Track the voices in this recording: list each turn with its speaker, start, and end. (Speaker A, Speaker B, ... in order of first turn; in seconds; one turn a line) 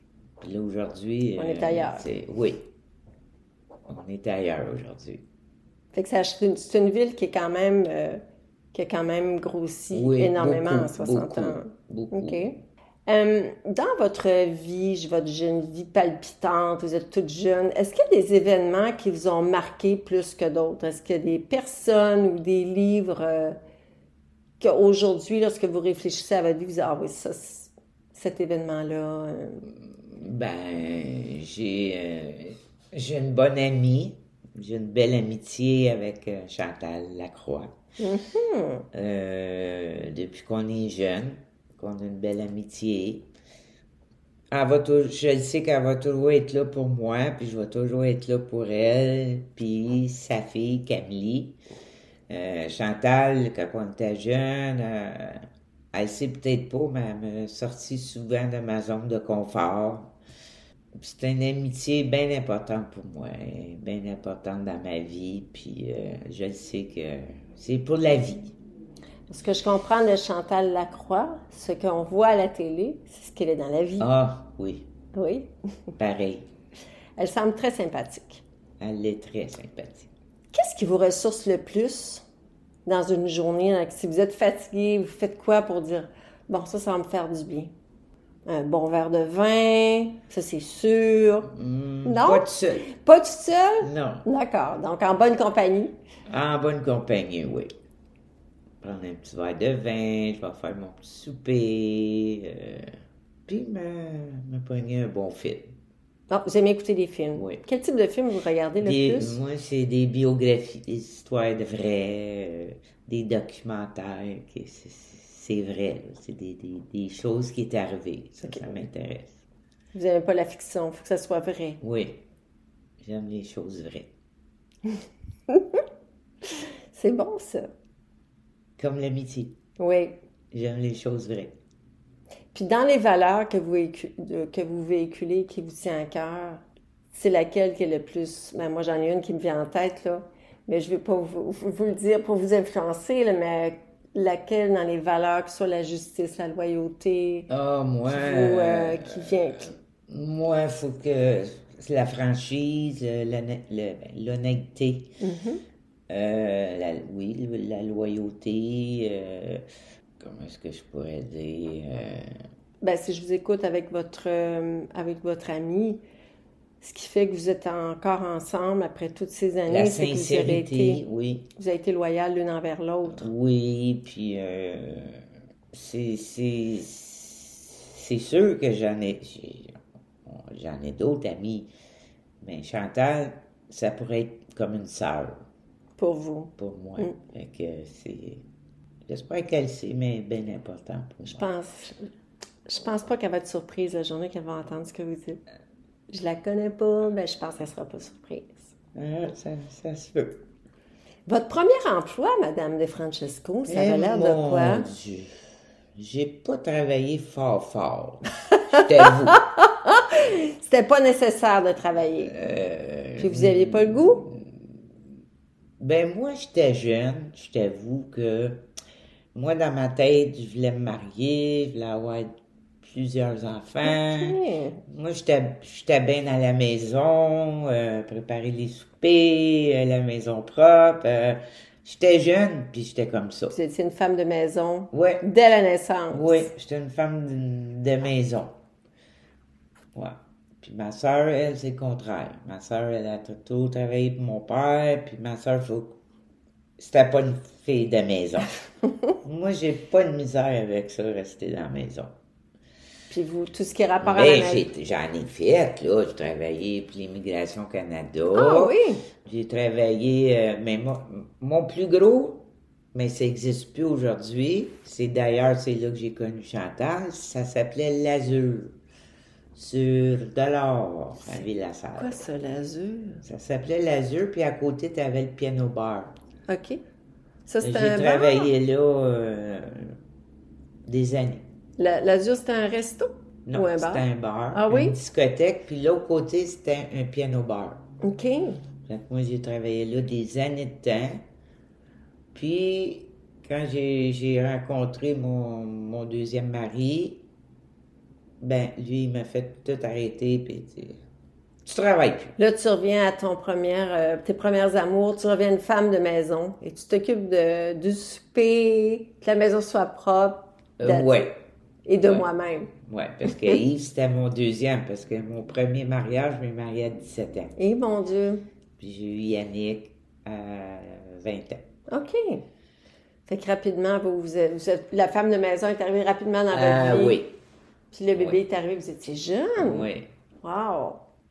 Speaker A: 0.4-2.7
Speaker B: 1.4-2.1
Speaker A: 3.9-5.2
Speaker B: 5.9-8.2
Speaker B: 8.7-12.6
Speaker A: 9.9-12.5
Speaker B: 13.1-23.6
Speaker B: 24.6-29.7
Speaker A: 29.9-37.7
Speaker B: 38.0-38.9
Speaker A: 38.9-43.3
Speaker A: 44.5-51.6
Speaker A: 52.3-60.1
Speaker A: 61.0-68.5
Speaker B: 69.3-74.1
Speaker A: 74.0-74.9
Speaker B: 75.1-75.5
Speaker A: 76.0-76.5
Speaker B: 77.2-78.4
Speaker A: 78.8-80.1
Speaker B: 80.5-82.2
Speaker B: 82.8-87.7
Speaker B: 88.5-91.5
Speaker A: 91.5-92.9
Speaker B: 92.0-95.9
Speaker A: 93.8-94.2
Speaker A: 96.3-97.7
Speaker A: 98.8-103.0
Speaker A: 103.5-105.8
Speaker B: 106.3-109.4
Speaker A: 107.3-107.6
Speaker A: 108.8-119.4
Speaker B: 119.9-121.8
Speaker A: 121.8-122.2
Speaker A: 123.0-124.1
Speaker B: 125.5-125.8
Speaker B: 126.9-127.7
Speaker A: 128.8-129.6
Speaker B: 129.8-130.2
Speaker A: 130.5-131.5
Speaker B: 132.5-147.5
Speaker A: 147.5-149.4
Speaker B: 148.1-149.7
Speaker A: 150.1-155.2
Speaker B: 155.2-155.6
Speaker A: 156.1-159.6
Speaker A: 160.2-162.3
Speaker B: 162.8-166.0
Speaker B: 166.8-171.0
Speaker A: 169.7-171.5
Speaker B: 171.6-173.3
Speaker A: 173.1-181.7
Speaker A: 182.4-185.4
Speaker B: 186.0-187.1
Speaker A: 186.6-188.4
Speaker A: 189.1-191.4
Speaker B: 191.3-192.0
Speaker B: 192.7-195.4
Speaker B: 196.1-198.7
Speaker A: 198.9-200.3
Speaker B: 201.3-204.9
Speaker A: 203.7-205.3
Speaker A: 206.0-209.4
Speaker B: 208.7-212.4
Speaker A: 212.3-214.5
Speaker B: 213.2-214.2
Speaker A: 215.8-218.6
Speaker A: 219.3-222.3
Speaker A: 222.8-224.3
Speaker B: 223.8-224.8
Speaker A: 224.9-233.5
Speaker B: 233.5-236.5
Speaker A: 234.9-235.2
Speaker A: 236.1-238.5
Speaker A: 239.9-246.0
Speaker A: 246.8-248.5
Speaker A: 249.2-252.1
Speaker B: 253.1-254.7
Speaker A: 254.0-268.8
Speaker B: 258.3-259.0
Speaker A: 269.5-272.1
Speaker B: 271.2-273.2
Speaker A: 273.2-276.1
Speaker B: 276.5-276.8
Speaker B: 277.5-278.5
Speaker A: 277.6-279.9
Speaker A: 280.9-281.4
Speaker B: 281.8-284.9
Speaker A: 283.5-287.8
Speaker B: 288.0-288.6
Speaker A: 288.9-291.2
Speaker A: 292.3-297.2
Speaker A: 298.4-301.0
Speaker A: 301.6-302.3
Speaker B: 302.4-311.3
Speaker A: 310.8-311.3
Speaker B: 311.8-312.7
Speaker A: 312.0-312.3
Speaker A: 312.8-317.5
Speaker B: 313.3-313.6
Speaker B: 317.6-318.4
Speaker A: 318.8-321.6
Speaker B: 321.9-322.4
Speaker B: 323.3-327.2
Speaker A: 326.5-327.4
Speaker B: 327.9-329.9
Speaker A: 328.1-328.4
Speaker A: 329.6-330.1
Speaker B: 330.4-331.0